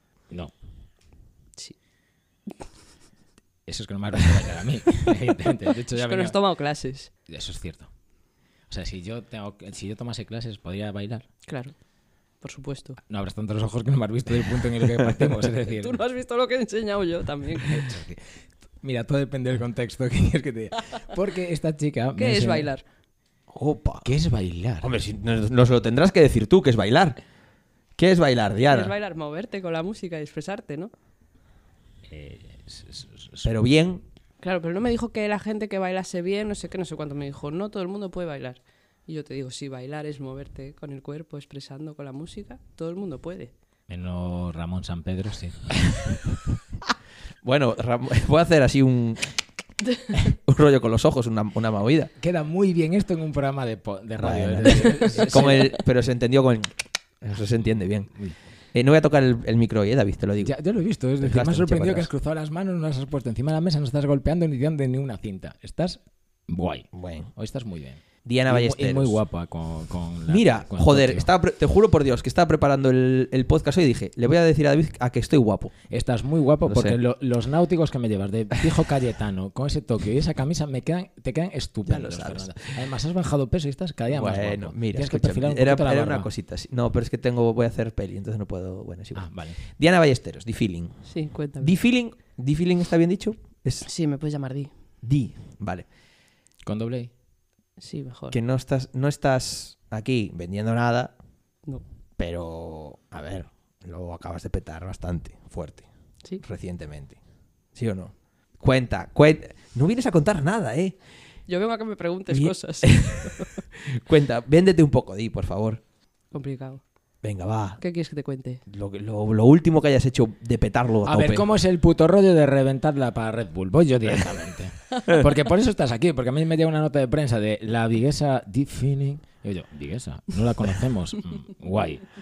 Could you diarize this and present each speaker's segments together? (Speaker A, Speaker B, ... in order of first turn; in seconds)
Speaker A: 3.6-6.4, 7.3-7.9, 8.7-11.3, 13.1-16.0, 17.7-22.7, 24.0-24.9, 32.0-33.5, 43.9-46.3, 52.2-55.7, 58.1-58.4, 60.4-71.3, 75.9-86.3, 89.1-89.6, 96.6-97.1, 121.0-132.0
Speaker B: 5.9-7.1, 11.4-13.0, 15.6-17.8, 22.2-22.8, 28.7-30.9, 34.4-43.5, 55.0-55.2, 91.0-91.7, 93.8-94.7, 97.8-98.3, 111.5-113.5, 116.3-116.8, 117.8-118.6
Speaker C: 23.5-24.1, 24.8-27.2, 27.9-28.9, 33.4-34.0, 47.4-49.3, 50.2-52.1, 54.2-58.1, 58.7-60.5, 61.2-62.1, 66.9-67.3, 68.2-69.2, 70.3-75.7, 76.7-77.0, 81.8-82.8, 84.1-93.9, 95.0-95.9, 98.3-101.2, 102.2-105.9, 106.4-107.2, 107.7-111.0, 112.3-115.8, 117.2-117.8, 118.7-121.4